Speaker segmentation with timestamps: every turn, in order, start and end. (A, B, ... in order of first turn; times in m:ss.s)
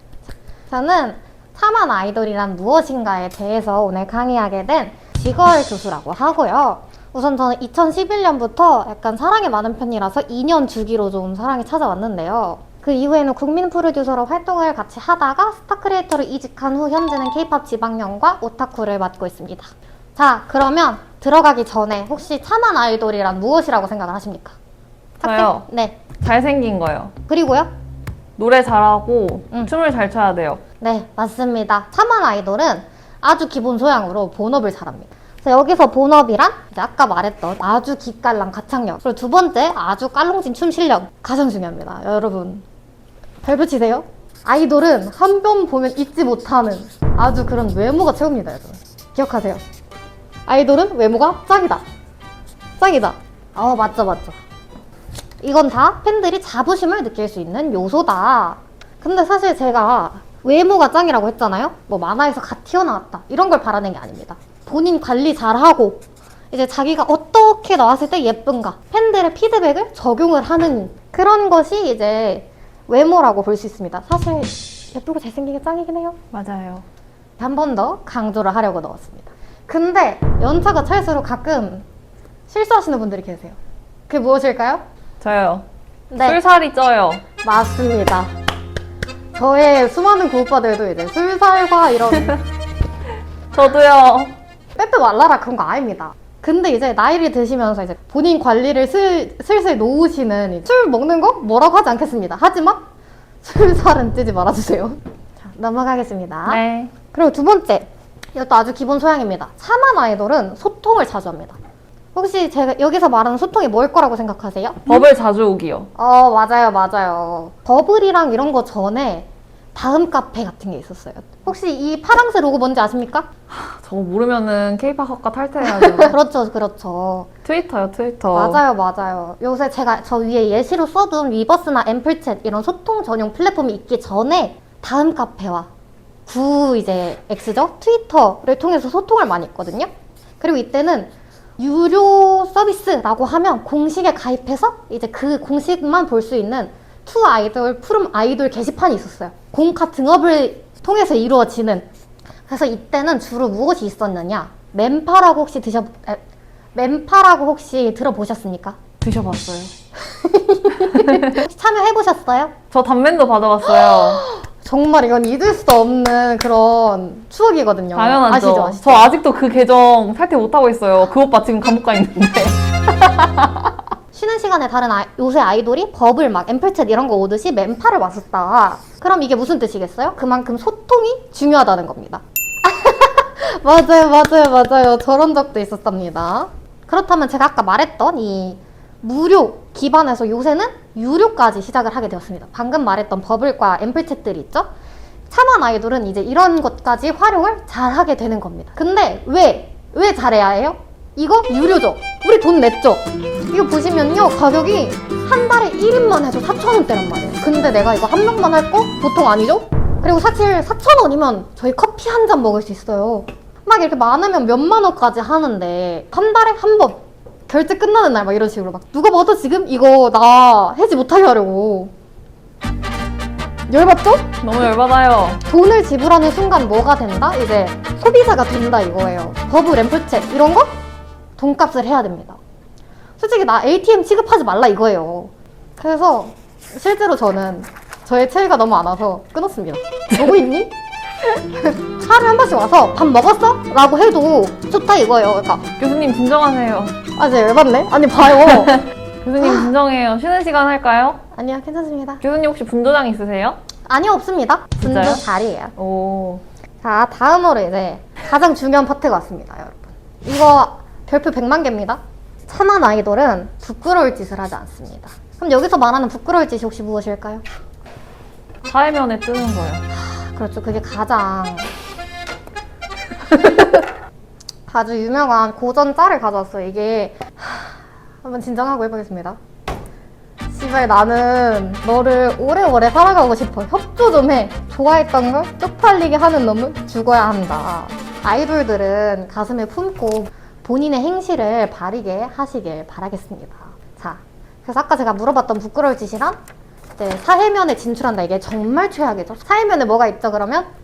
0:00.7-0:24.6 A
0:25.2-0:26.1 A
0:25.2-0:25.6 B
0:26.2-0:27.1 B
0:27.3-0:27.7 A
0:28.4-0:30.6 B
0:30.8-0:42.6 A
0:43.4-0:49.6 A
0:50.5-0:51.8 A
0:52.8-0:54.4 A
0:55.4-1:16.2 A
1:16.3-1:16.8 B
1:17.4-1:21.8 A
1:22.5-1:23.6 A
1:24.1-1:24.8 A
1:25.2-1:25.6 B
1:26.1-1:26.4 A
1:26.2-1:27.2 B
1:27.4-1:28.3 A
1:29.3-1:32.4 A
1:33.5-1:34.3 B
1:34.8-1:42.8 A
1:43.4-1:51.6 A
1:46.5-1:46.9 B
1:52.1-1:55.0 A
1:54.9-1:55.9 B
1:56.0-2:03.3 A
2:03.5-2:06.2 B
2:05.6-2:07.3 A
2:07.4-2:08.6 B
2:08.3-2:15.7 A
2:16.3-2:19.9 A
2:20.4-2:31.9 A
2:32.5-2:36.2 A
2:36.7-2:38.8 A
2:39.0-2:39.7 B
2:40.0-2:42.5 A
2:40.8-2:41.4 B
2:42.7-2:44.2 B
2:43.7-2:49.2 A
2:47.9-2:53.7 B
2:54.1-3:14.7 A
3:15.3-3:41.9 A
3:43.7-3:44.4 A
3:44.4-3:45.4 B
3:45.4-3:50.7 A
3:51.4-3:52.4 A
3:53.2-4:00.7 A
4:01.5-4:05.7 A
4:05.8-4:07.0 B
4:07.2-4:08.8 A
4:08.4-4:11.2 B
4:11.3-4:12.2 A
4:12.2-4:13.6 B
4:13.9-4:15.7 A
4:14.8-4:15.2 B
4:15.8-4:16.4 B
4:16.8-4:27.4 A
4:28.6-4:29.8 B
4:29.9-4:31.7 A
4:34.7-4:39.4 A
4:40.5-4:56.4 A
4:57.0-5:00.7 A